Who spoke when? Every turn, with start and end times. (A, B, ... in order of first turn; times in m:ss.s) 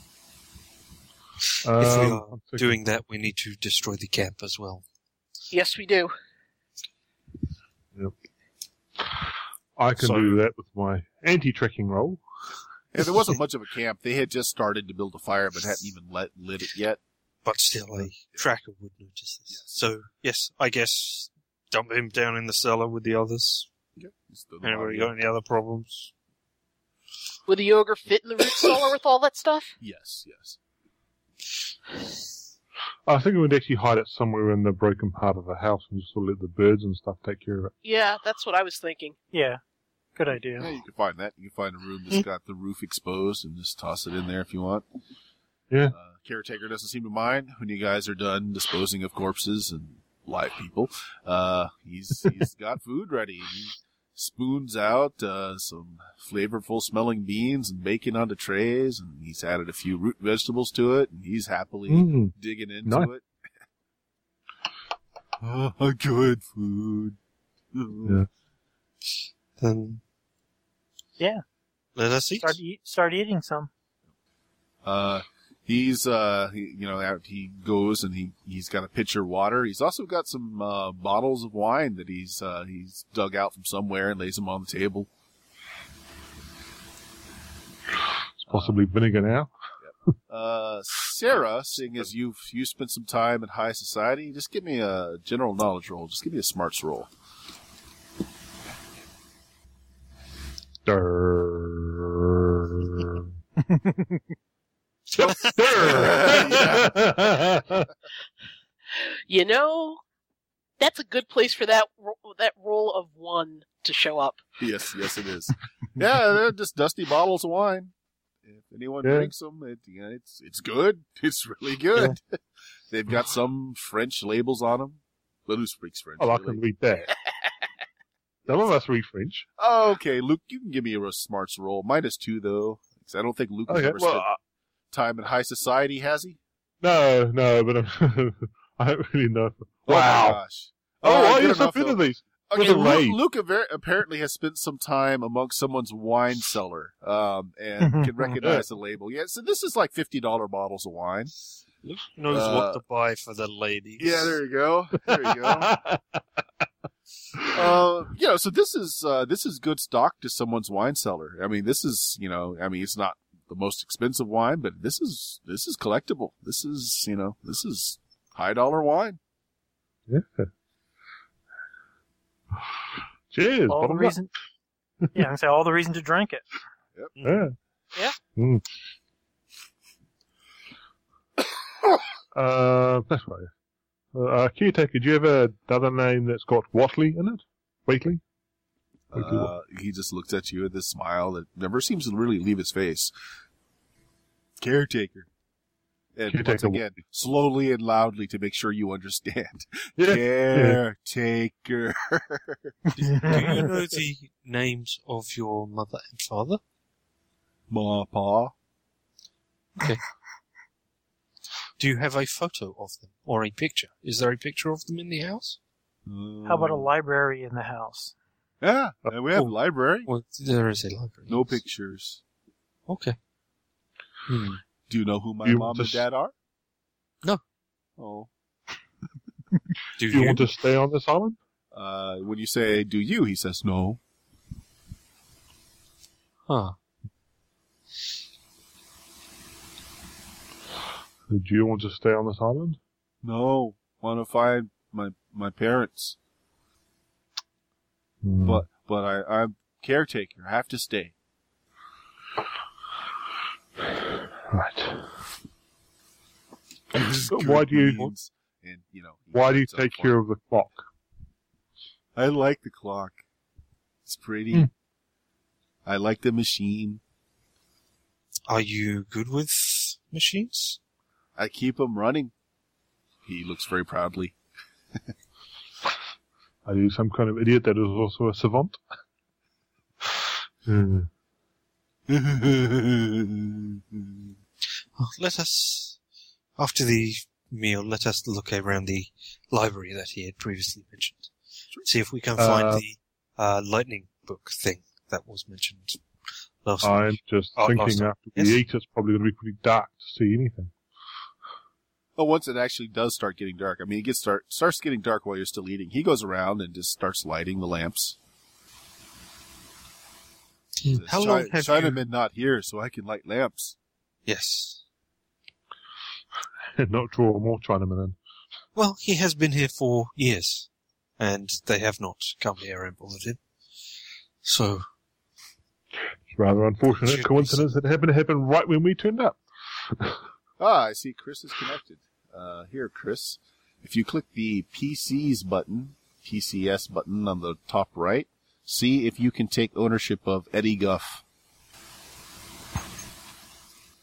0:01.6-0:02.7 A
0:01.8-0:04.8 B
0:05.5-0:06.1 C
0:09.8-0:12.2 A
0:10.0-0:10.4 B
0:12.9-0:17.0 D
0:17.4-0:23.7 B
0:24.0-0:25.1 D
0:24.6-0:26.1 B
0:27.5-0:29.8 C
0:29.8-0:30.6 D
0:33.1-0:37.7 A
0:37.8-0:39.2 C
0:39.3-0:39.6 E
0:40.2-0:40.7 E
0:40.6-0:44.8 D
0:45.7-0:46.0 A
0:45.9-1:03.3 D
1:01.9-1:02.3 A
1:05.4-1:07.2 D
1:07.7-1:08.2 D
1:09.6-1:10.0 B
1:11.2-1:11.4 E
1:12.0-1:12.6 B
1:12.4-1:13.7 E
1:14.8-1:25.1 D
1:28.4-1:29.5 A
1:28.5-1:28.9 D
1:29.8-1:37.1 D
1:40.8-1:43.3 A
1:43.7-1:44.2 E
1:45.2-1:47.9 A
1:45.2-1:45.9 B
1:45.7-1:47.0 D
1:49.0-1:50.0 C
1:50.8-1:54.4 C
1:54.6-1:57.9 D
1:58.5-2:02.4 D
1:59.0-1:59.3 A
2:02.9-2:06.6 D
2:06.2-2:07.1 A
2:08.5-2:09.5 A
2:09.6-2:14.3 D
2:13.7-2:14.4 A
2:14.9-2:16.4 D
2:16.8-2:20.4 A
2:19.9-2:31.3 D
2:21.0-2:23.2 A
2:27.8-2:28.1 E
2:31.8-2:34.4 B
2:32.3-2:32.8 D
2:34.0-2:35.8 D
2:35.4-2:36.0 A
2:37.5-2:49.2 D
2:50.1-2:50.5 A
2:53.3-2:54.2 A
2:53.7-2:54.3 E
2:55.1-2:56.5 E
2:57.2-2:57.4 B
2:57.2-2:57.6 A
2:58.4-2:58.6 A
3:02.3-3:03.5 A
3:04.1-3:08.2 A
3:09.1-3:13.1 D
3:09.1-3:09.5 A
3:14.6-3:15.3 D
3:16.2-3:23.7 D
3:16.3-3:16.8 A
3:20.0-3:20.8 A
3:23.1-3:23.6 E
3:23.1-3:26.6 B
3:27.7-3:28.5 D
3:29.8-3:30.0 B
3:31.8-3:35.6 B
3:36.1-3:36.9 D
3:36.5-3:38.2 E
3:38.6-3:40.1 D
3:40.1-3:41.6 B
3:41.3-3:42.2 D
3:42.9-3:43.2 B
3:44.3-3:44.6 B
3:44.9-3:46.3 D
3:45.4-3:46.0 A
3:48.0-3:48.3 D
3:50.0-3:50.5 B
3:50.1-3:51.4 A
3:51.7-3:54.0 D
3:56.5-3:56.8 B
4:01.3-4:02.8 A
4:03.2-4:06.2 D
4:08.2-4:08.6 A
4:08.4-4:11.1 D
4:14.5-4:15.1 A
4:16.9-4:20.2 D
4:17.3-4:18.1 A
4:19.3-4:20.8 A
4:22.2-4:23.2 D
4:24.1-4:24.7 D
4:25.8-4:27.0 D
4:28.5-4:30.8 B
4:31.4-4:32.3 D
4:33.3-4:34.4 D
4:36.7-4:38.8 A
4:40.7-4:41.1 A
4:42.1-4:44.3 D
4:45.0-4:46.0 B
4:46.6-4:51.3 B
4:51.8-4:56.0 B
4:52.4-4:52.8 A
4:56.6-4:58.6 B
4:56.8-5:00.7 A
5:02.2-5:08.2 D
5:10.8-5:12.0 B
5:10.9-5:13.8 D
5:14.3-5:14.8 B
5:16.8-5:18.2 A
5:18.8-5:23.4 B
5:24.4-5:24.8 B
5:26.3-5:29.4 A
5:26.9-5:27.6 B
5:30.6-5:41.2 D